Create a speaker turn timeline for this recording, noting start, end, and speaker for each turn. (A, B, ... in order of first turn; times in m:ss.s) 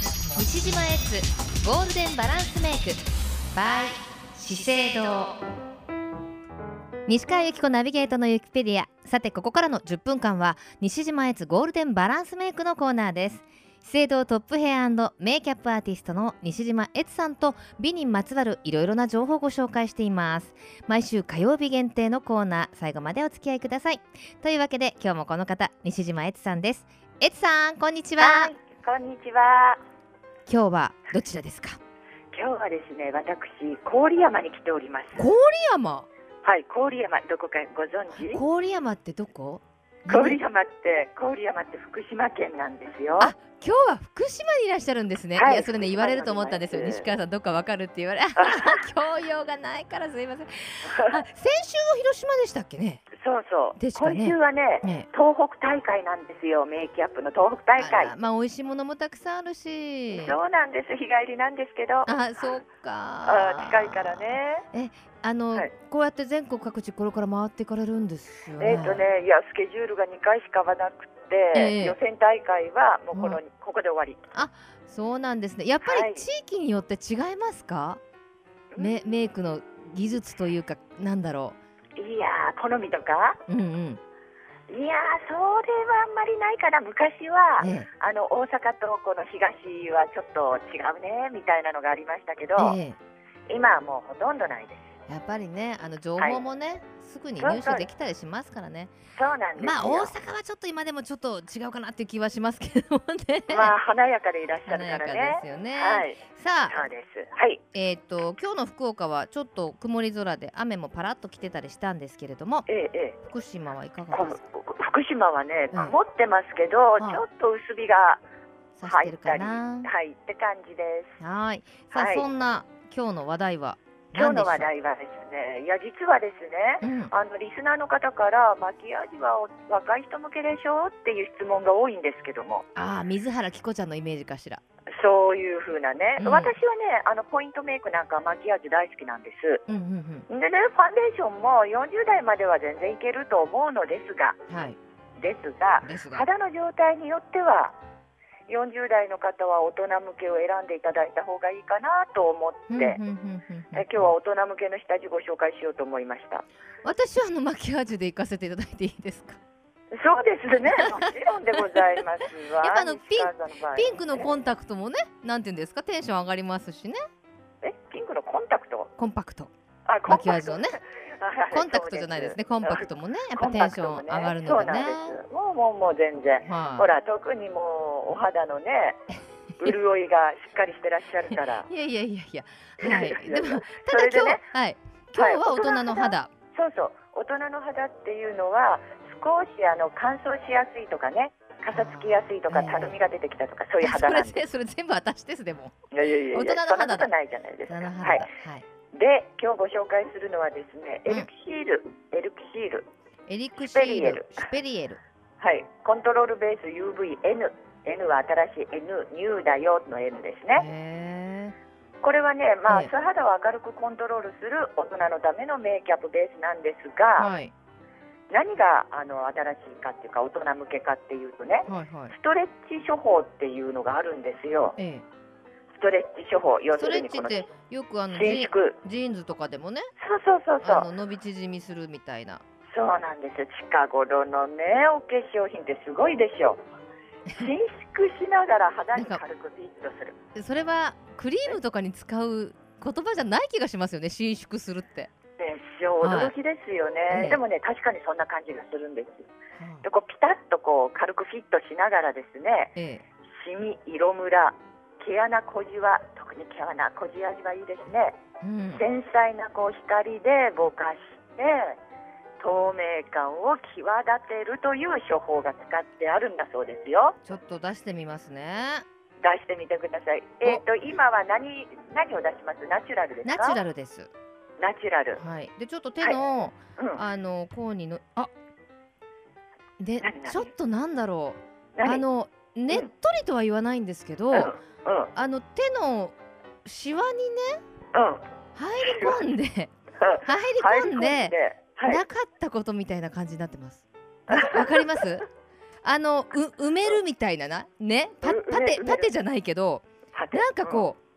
0:00.3-0:05.3 A
0:07.1-0:28.5 A
0:28.2-0:29.8 B
0:30.5-0:31.8 A
0:32.3-0:35.3 B
0:35.2-0:36.1 A
0:36.4-0:38.4 B
0:38.2-0:40.4 A
0:40.1-0:43.3 B
0:43.2-0:53.0 A
0:45.4-0:47.1 B
0:48.4-0:48.8 B
0:50.8-0:51.2 B
0:53.2-0:58.1 B
0:53.8-0:55.1 A
0:57.8-1:00.4 A
1:00.1-1:02.5 B
1:02.1-1:04.2 A
1:03.2-1:04.6 B
1:04.7-1:09.1 A
1:08.6-1:14.2 B
1:11.5-1:12.0 A
1:13.1-1:13.4 A
1:14.3-1:18.0 A
1:15.8-1:16.3 B
1:18.8-1:21.6 A
1:22.0-1:23.4 B
1:23.5-1:24.0 A
1:24.7-1:32.8 B
1:27.6-1:27.9 A
1:32.6-1:33.0 A
1:33.5-1:34.9 B
1:35.1-1:38.9 A
1:36.2-1:36.4 B
1:37.4-1:37.9 B
1:39.2-1:40.1 B
1:39.6-1:43.8 A
1:43.5-1:47.6 B
1:44.7-1:46.8 A
1:47.7-1:52.7 A
1:52.7-1:53.2 B
1:53.2-1:54.4 A
1:54.1-1:58.2 B
1:58.8-1:59.9 A
1:58.8-2:01.2 B
2:01.2-2:04.7 A
2:01.9-2:02.3 B
2:04.1-2:12.6 B
2:06.8-2:07.1 A
2:12.8-2:14.6 A
2:14.9-2:19.6 B
2:16.2-2:16.6 A
2:19.7-2:20.3 A
2:20.3-2:24.4 B
2:24.5-2:24.8 A
2:25.2-2:27.8 B
2:25.8-2:26.2 A
2:28.5-2:33.0 B
2:32.7-2:34.0 A
2:33.7-2:36.5 B
2:36.8-2:39.4 A
2:39.9-2:44.3 B
2:40.8-2:42.0 A
2:42.6-2:47.0 A
2:47.6-2:48.9 B
2:49.0-2:49.5 A
2:49.9-2:50.6 B
2:50.1-2:50.8 A
2:51.2-2:59.0 B
2:51.5-2:55.2 A
2:56.5-2:56.9 A
2:59.6-3:01.7 B
3:01.3-3:06.3 A
3:02.8-3:04.4 B
3:05.1-3:14.4 B
3:11.7-3:13.0 A
3:13.8-3:15.8 A
3:15.9-3:18.3 B
3:16.3-3:17.1 A
3:17.7-3:18.6 A
3:18.9-3:22.9 B
3:23.3-3:25.0 A
3:23.7-3:24.5 B
3:25.4-3:30.7 B
3:30.5-3:31.6 A
3:32.0-3:37.3 B
3:37.2-3:37.5 A
3:38.3-3:44.8 B
3:41.7-3:42.1 A
3:44.8-3:45.0 A
3:45.7-3:47.5 B
3:46.7-3:49.9 A
3:48.1-3:48.8 B
3:50.0-3:50.9 B
3:50.6-3:52.4 A
3:52.7-3:56.6 B
3:57.3-4:00.2 B
3:58.9-3:59.2 A
4:00.4-4:05.1 A
4:05.4-4:09.3 B
4:06.0-4:06.3 A
4:07.1-4:07.4 A
4:09.6-4:09.8 A
4:09.8-4:12.7 B
4:12.8-4:13.0 A
4:13.4-4:18.2 B
4:18.4-4:18.8 A
4:18.8-4:21.8 B
4:22.4-4:27.2 B
4:27.2-4:28.8 A
4:29.2-4:33.6 B
4:33.2-4:34.1 A
4:34.6-4:35.2 B
4:35.2-4:38.3 A
4:36.8-4:37.0 B
4:39.8-4:44.5 A
4:40.0-4:40.5 B
4:41.8-4:42.0 B
4:44.3-4:45.1 B
4:45.2-4:47.6 A
4:47.9-4:48.2 B
4:48.6-4:49.7 A
4:48.8-4:49.2 B
4:50.0-4:52.0 B
4:50.2-4:55.3 A
4:54.3-4:55.0 B
4:55.8-5:01.0 A
4:58.2-4:59.1 B
5:00.1-5:00.9 B